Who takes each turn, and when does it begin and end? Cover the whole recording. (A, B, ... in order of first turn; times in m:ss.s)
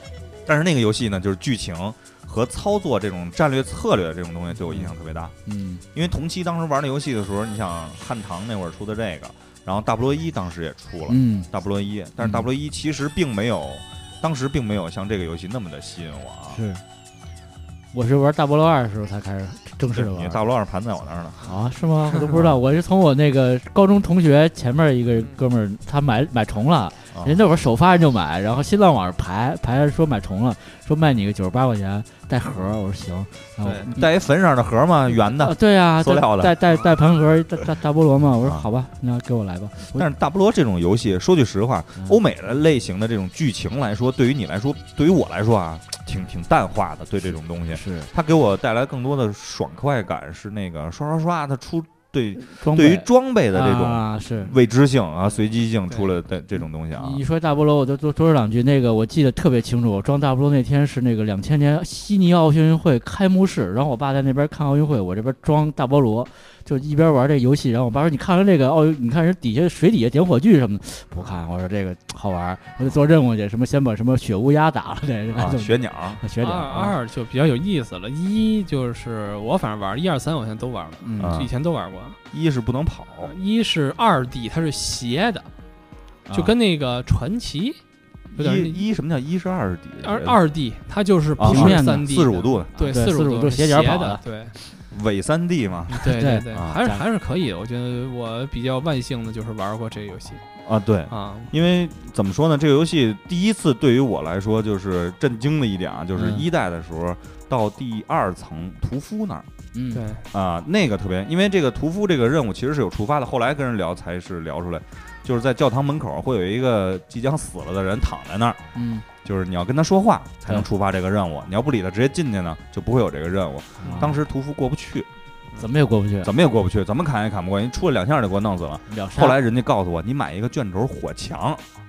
0:00.4-0:05.3 A
0:05.4-0:05.8 B
0:05.9-0:16.6 A
0:11.1-0:11.5 B
0:16.5-0:16.8 B
0:17.9-0:20.4 B
0:19.9-0:21.5 A
0:21.4-0:34.1 B
0:22.3-0:22.6 A
0:27.1-0:27.4 A
0:33.6-0:33.9 C
0:33.9-0:36.6 A
0:35.2-0:40.1 B
0:39.9-0:57.2 A
0:47.7-0:48.1 B
0:52.4-0:54.5 B
0:55.9-0:56.1 C
0:57.0-1:17.0 B
1:15.3-1:16.2 A
1:16.4-1:22.2 C
1:21.0-1:21.3 B
1:21.2-1:21.5 A
1:22.3-1:23.3 A
1:23.2-1:25.5 C
1:26.3-1:27.8 C
1:28.3-1:28.8 C
1:28.3-1:30.4 A
1:30.0-1:34.6 C
1:31.4-1:32.7 A
1:31.4-1:32.1 B
1:32.7-1:34.2 B
1:34.9-1:36.8 A
1:35.9-1:40.4 C
1:36.0-1:37.0 B
1:40.6-1:49.5 A
1:41.1-1:41.5 C
1:46.1-1:46.4 B
1:49.7-1:50.0 B
1:49.9-1:50.2 C
1:50.3-1:58.6 A
1:58.7-1:59.0 B
1:59.2-2:05.1 A
2:03.8-2:04.2 B
2:05.6-2:06.3 B
2:06.2-2:11.6 A
2:08.9-2:09.4 B